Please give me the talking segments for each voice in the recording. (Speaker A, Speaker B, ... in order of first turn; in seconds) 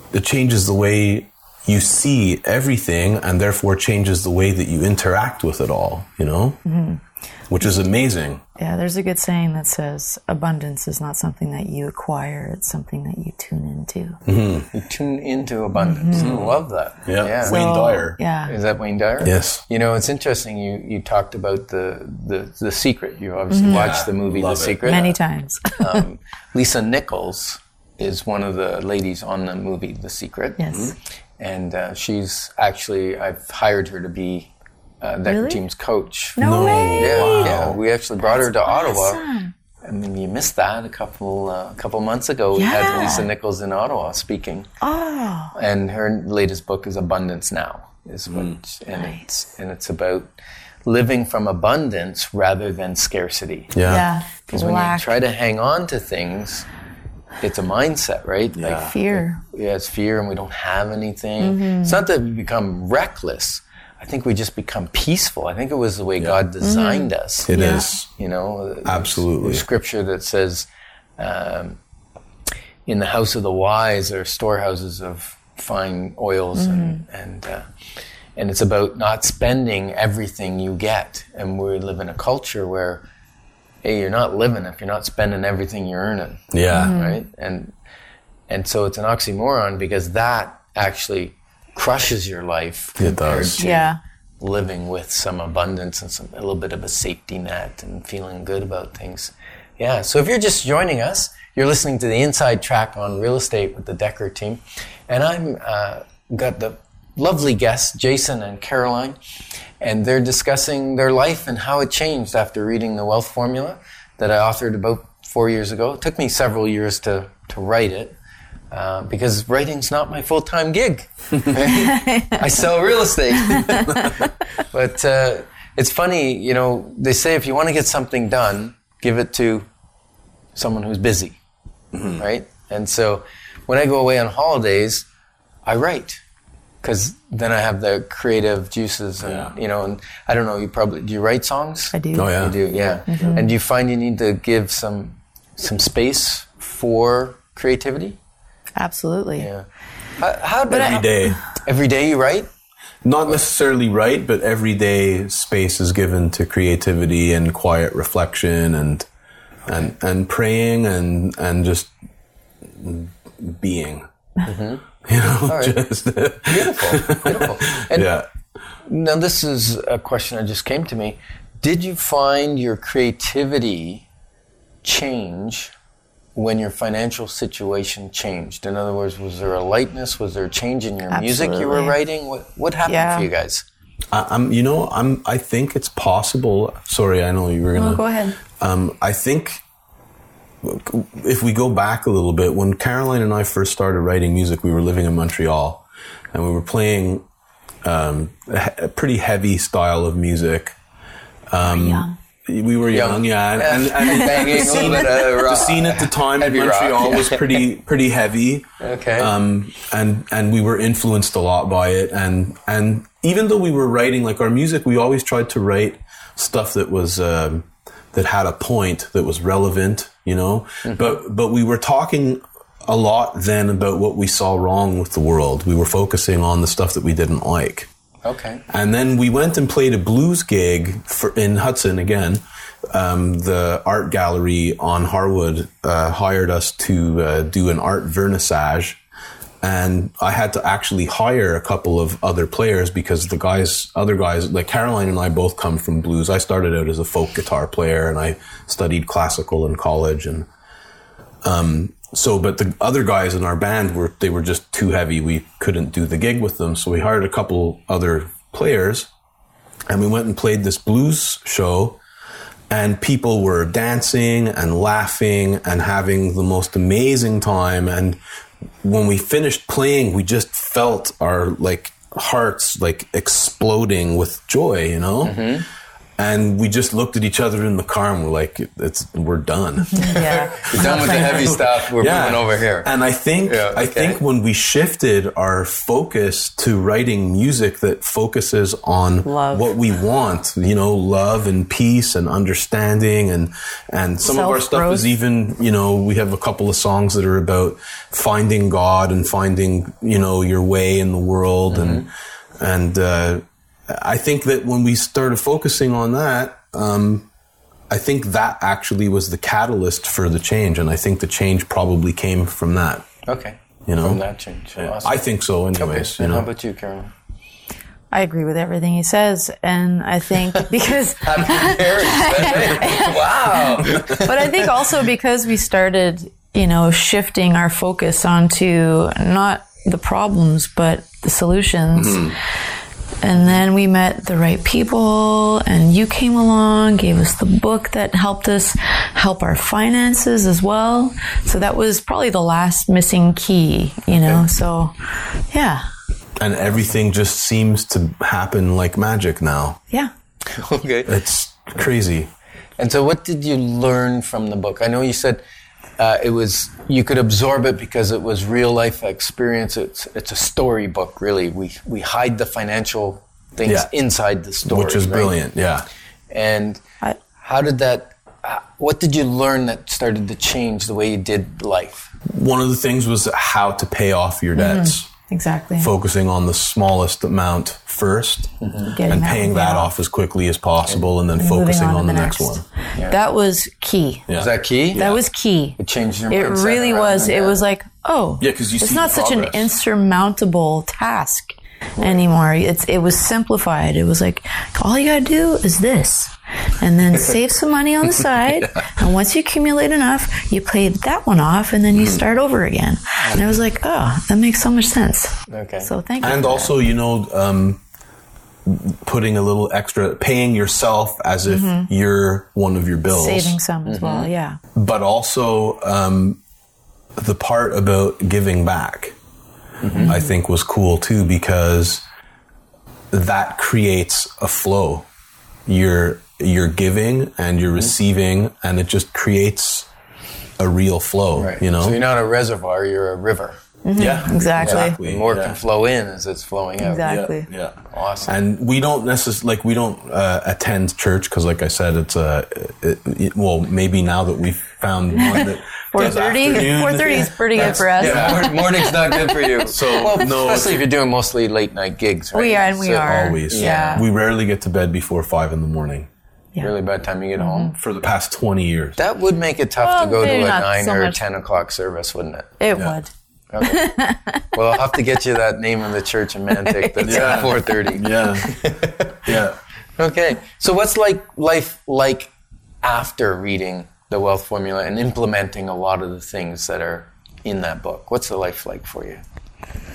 Speaker A: 0.1-6.6, 7.5-8.4, 14.3-14.7, 16.1-18.2, 19.2-19.6, 23.7-24.9, 36.4-37.8, 53.7-54.1, 58.6-58.9, 67.5-68.1, 68.8-69.6, 86.5-86.9, 93.0-93.7, 131.9-132.2, 139.2-139.5, 142.2-142.6, 150.7-151.4, 153.0-159.1, 159.7-161.9, 162.7-164.1, 165.1-168.3, 184.1-188.0, 188.5-189.6, 190.6-197.2, 197.8-200.8, 201.5-208.7, 209.2-227.9, 228.7-239.0, 239.6-250.5, 251.4-259.1, 259.9-262.0, 262.7-268.2, 268.8-275.5, 276.2-307.3, 307.9-313.1, 313.9-314.2, 314.8-316.5, 331.9-332.4, 346.4-349.8, 351.1-352.3, 363.6-363.9, 364.6-365.9, 372.3-375.1, 375.8-378.5, 379.1-382.6, 384.3-385.2, 388.4-389.7, 401.9-402.2, 406.2-407.8, 408.7-413.6, 414.8-416.4, 417.2-419.2, 420.1-422.0, 423.1-425.1, 425.7-429.9, 430.6-432.0, 434.0-435.6, 437.0-448.5, 449.7-450.9, 453.0-456.1, 457.7-459.0, 467.0-468.6, 469.2-469.6
Speaker B: 6.7-7.0, 8.6-14.2, 15.8-16.4, 17.4-18.5, 23.5-24.0, 24.8-26.0, 30.6-30.9, 35.3-35.6, 36.4-37.7, 38.2-39.5, 42.6-43.3, 44.8-45.5, 48.9-49.2, 53.8-55.2, 58.7-59.4, 61.4-62.0, 66.6-67.9, 76.6-77.0, 86.7-87.2, 93.6-94.0, 121.7-122.4, 123.5-124.1, 141.9-142.3, 143.1-143.5, 148.8-149.5, 150.7-151.3, 181.1-182.0, 182.9-183.3, 187.7-188.4, 201.7-202.1, 279.9-281.5, 289.2-289.7, 294.2-295.1, 318.1-332.4, 333.2-344.9, 345.5-345.8, 374.6-375.9, 378.9-379.9, 381.4-384.3, 384.9-385.8, 386.3-406.7, 411.5-411.9, 413.1-414.6, 419.9-420.3, 433.9-435.0, 436.8-437.5, 445.1-449.4, 452.3-454.1, 457.4-457.7, 459.8-461.2, 462.6-463.1, 463.6-464.5, 466.6-467.4
Speaker C: 14.7-17.6, 18.5-25.2, 25.8-30.6, 31.4-39.2, 39.8-44.7, 45.5-50.3, 50.9-53.8, 54.5-56.7, 57.4-67.5, 68.1-70.7, 71.2-71.8, 72.9-77.7, 78.4-83.0, 83.8-87.8, 88.5-93.9, 94.4-109.2, 109.8-118.2, 118.7-129.7, 130.6-131.4, 132.1-135.1, 135.7-136.2, 136.8-148.2, 149.4-149.7, 150.2-152.5, 164.4-164.8, 165.5-165.8, 166.4-168.1, 168.9-174.1, 174.8-175.7, 176.4-183.7, 202.9-207.6, 208.8-209.3, 220.8-221.2, 228.2-228.6, 275.2-275.7, 280.6-282.9, 283.4-284.2, 301.7-302.1, 313.3-317.1, 321.2-324.7, 350.5-351.1, 352.8-355.4, 356.0-365.4, 366.3-366.8, 367.4-372.1, 378.6-379.0, 384.3-385.1, 385.8-387.6, 392.0-392.2, 405.5-405.9, 413.9-414.3, 419.8-420.1, 431.4-433.6, 434.6-437.1, 437.9-438.3, 447.5-454.0, 456.6-457.7, 459.0-462.6, 463.5-463.9, 464.5-469.3, 470.0-472.3, 472.8-479.2